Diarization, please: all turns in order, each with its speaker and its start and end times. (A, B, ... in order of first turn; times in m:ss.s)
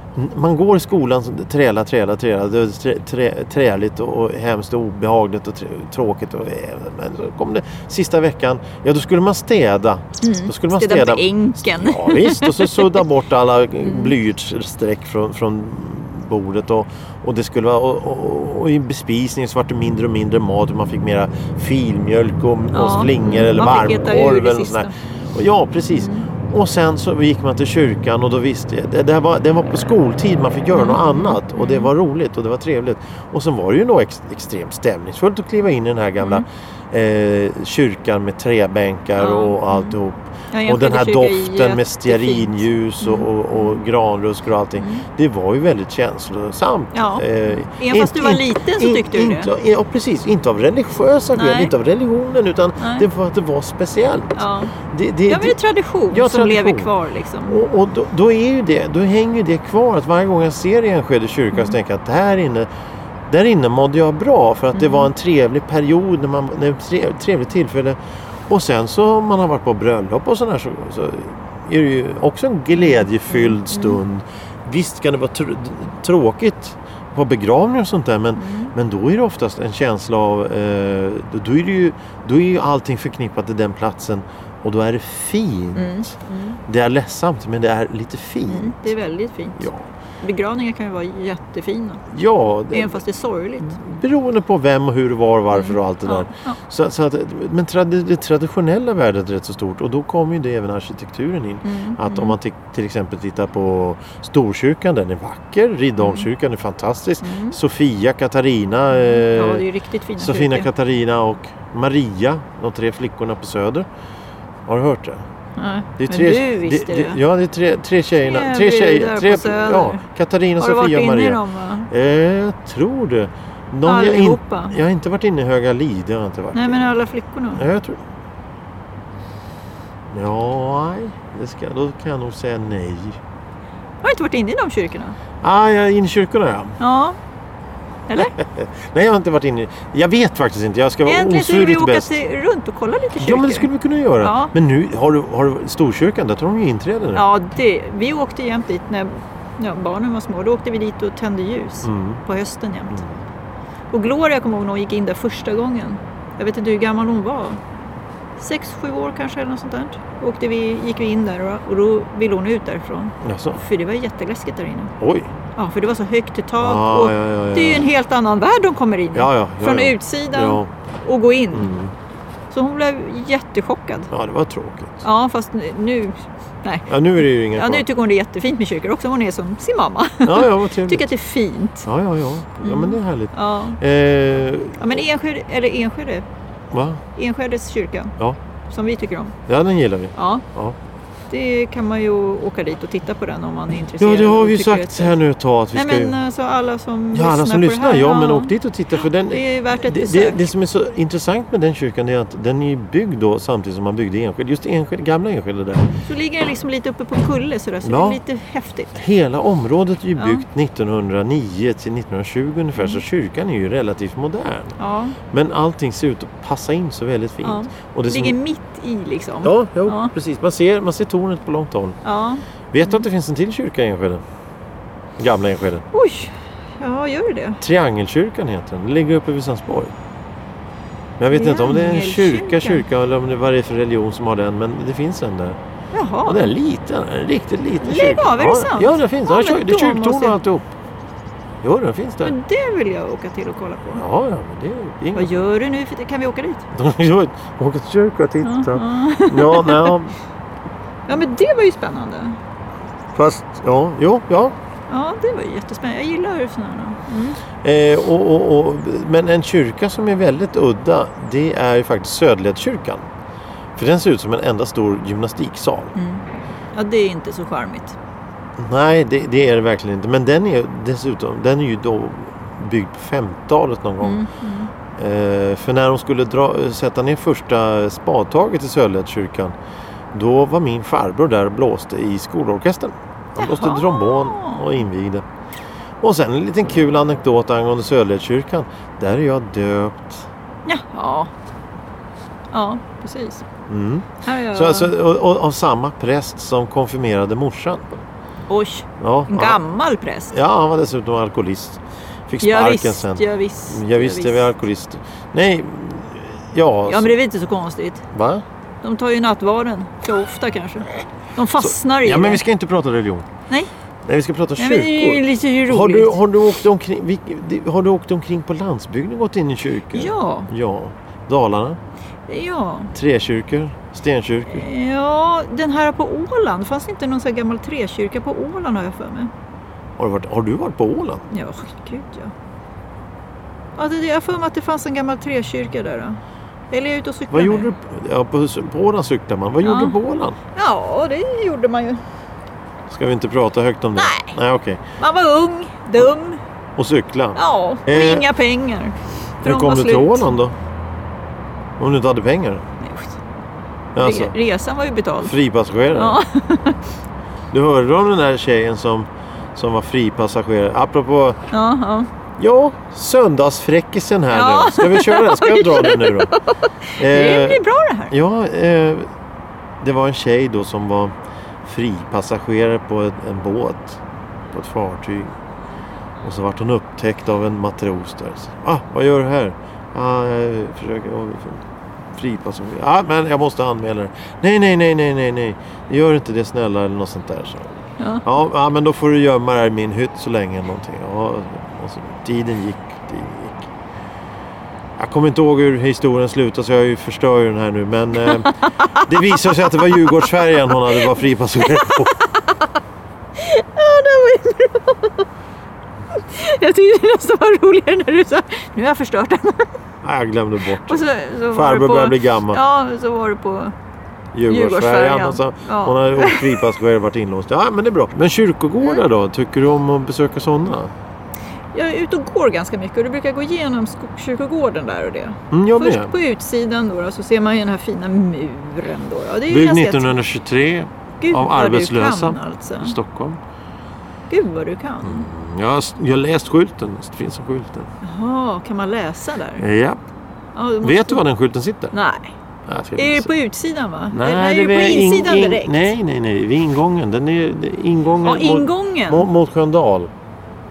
0:00.2-0:55.6 A
0:10.2-0:13.0 B
0:13.8-0:14.2 B
0:22.7-0:24.9 B
0:25.9-0:26.3 B
0:30.7-0:31.9 B
0:36.2-0:36.4 B
0:39.2-0:40.0 B
0:40.5-0:43.8 B
0:44.8-0:45.1 B
0:46.9-0:49.5 B
0:51.4-0:51.7 B
0:52.8-0:53.1 B
0:54.4-0:54.7 B
0:55.3-0:57.6 B
0:56.1-0:56.9 A
0:57.4-1:02.7 A
1:03.3-1:26.1 A
1:04.7-1:05.1 B
1:12.8-1:14.0 B
1:18.4-1:18.7 B
1:25.8-1:26.6 B
1:26.7-1:28.9 A
1:28.5-1:29.7 B
1:29.6-1:29.9 A
1:30.2-1:32.1 B
1:32.1-1:33.0 A
1:32.7-1:33.8 B
1:33.6-1:49.6 A
1:35.5-1:36.6 B
1:41.6-1:42.4 B
1:46.0-1:46.3 B
1:47.2-1:47.6 B
1:48.9-1:50.7 B
1:50.2-1:53.9 A
1:54.7-1:55.2 A
1:55.6-1:57.2 B
1:56.0-2:06.9 A
1:58.2-2:00.0 B
2:00.6-2:01.9 B
2:03.8-2:04.8 B
2:06.5-2:07.6 B
2:07.6-2:08.0 A
2:10.1-2:13.2 A
2:14.0-2:15.2 B
2:15.4-2:16.8 A
2:16.8-2:17.2 B
2:18.1-2:18.4 B
2:18.2-2:22.2 A
2:21.0-2:23.7 B
2:23.2-2:27.2 A
2:24.2-2:24.5 B
2:27.1-2:33.0 B
2:31.8-2:32.2 A
2:32.9-2:33.2 A
2:33.9-2:37.6 B
2:38.4-2:44.9 B
2:43.2-2:43.6 A
2:45.0-2:45.3 A
2:45.6-2:51.7 B
2:46.6-2:47.9 A
2:49.1-2:50.7 A
2:51.5-2:51.9 A
2:52.5-2:54.1 B
2:54.1-2:55.0 A
2:55.0-3:01.9 B
2:56.9-2:57.9 A
3:00.2-3:01.1 A
3:01.8-3:05.0 A
3:02.6-3:03.8 B
3:04.8-3:06.2 B
3:06.7-3:07.0 A
3:07.2-3:08.2 B
3:08.7-3:09.4 B
3:09.5-3:10.8 A
3:10.2-3:10.4 B
3:11.3-3:15.2 B
3:14.0-3:16.2 A
3:15.7-3:18.5 B
3:17.1-3:25.9 A
3:19.3-3:20.5 B
3:26.1-3:29.0 B
3:27.8-3:28.2 A
3:29.0-3:34.8 A
3:30.2-3:30.4 B
3:34.8-3:35.2 B
3:35.3-3:38.4 A
3:37.4-3:40.1 B
3:39.4-3:42.0 A
3:42.0-3:43.0 B
3:42.7-3:44.2 A
3:45.2-3:45.8 A
3:45.9-3:47.6 B
3:47.6-3:49.9 A
3:51.2-3:55.6 A
3:51.3-3:52.8 B
3:55.9-3:56.5 B
3:56.3-4:00.7 A
3:57.8-4:00.4 B
4:01.6-4:02.4 A
4:02.2-4:04.0 B
4:04.0-4:05.4 A
4:05.2-4:06.7 B
4:06.7-4:10.2 A
4:08.4-4:10.0 B
4:11.1-4:12.4 B
4:13.1-4:14.6 A
4:14.9-4:17.4 B
4:17.6-4:23.1 A
4:23.8-4:25.9 A
4:26.0-4:28.0 B
4:28.6-4:34.2 A
4:34.0-4:34.7 B
4:35.0-4:39.6 A
4:40.1-4:45.3 A
4:43.4-4:44.7 B
4:46.0-4:50.3 A
4:50.7-4:51.3 B
4:52.5-4:53.4 B
4:53.7-4:58.0 A
4:54.2-4:54.9 B
4:58.5-5:00.3 B
4:59.0-4:59.6 A
5:00.3-5:07.2 A
5:02.4-5:04.5 B
5:06.9-5:08.0 B
5:08.1-5:08.4 A
5:08.8-5:12.4 B
5:11.6-5:13.3 A
5:14.0-5:21.8 A
5:14.6-5:16.2 B
5:19.9-5:20.5 B
5:22.3-5:22.9 B
5:23.0-5:24.7 A
5:24.5-5:29.3 B
5:30.0-5:31.3 A
5:31.3-5:32.3 B
5:33.8-5:36.2 B
5:36.7-5:37.7 B
5:37.3-5:40.4 A
5:39.6-5:40.0 B
5:40.6-5:42.0 B
5:42.9-5:44.8 A
5:44.0-5:44.4 B
5:45.0-5:46.4 B
5:46.8-5:48.3 A
5:47.4-5:50.4 B
5:49.4-5:50.5 A
5:51.8-5:52.6 A
5:52.8-5:53.2 B
5:54.0-5:54.4 A
5:54.0-5:55.4 B
5:55.2-5:56.2 A
5:55.9-5:56.8 B
5:57.5-6:01.4 A
6:01.5-6:02.1 B
6:02.4-6:06.3 A
6:04.3-6:08.1 B
6:07.0-6:09.1 A
6:09.8-6:11.1 A
6:11.6-6:15.3 A
6:16.2-6:33.7 A
6:28.0-6:28.2 B
6:35.0-6:42.2 A
6:38.2-6:40.2 B
6:40.7-6:41.1 B
6:41.6-6:42.6 B
6:43.4-6:45.3 B
6:46.1-6:49.7 B
6:50.0-6:52.6 A
6:50.9-6:53.7 B
6:54.3-7:00.9 A
6:54.5-6:56.7 B
7:01.7-7:10.2 B
7:05.5-7:06.1 A
7:09.5-7:13.4 A
7:11.2-7:13.0 B
7:14.3-7:15.3 B
7:15.0-7:17.9 A
7:18.0-7:19.6 B
7:19.6-7:20.0 A
7:20.6-7:21.2 B
7:20.8-7:21.9 A
7:21.9-7:22.3 B
7:22.7-7:23.3 A
7:23.0-7:26.0 B
7:24.1-7:30.1 A
7:28.2-7:29.3 B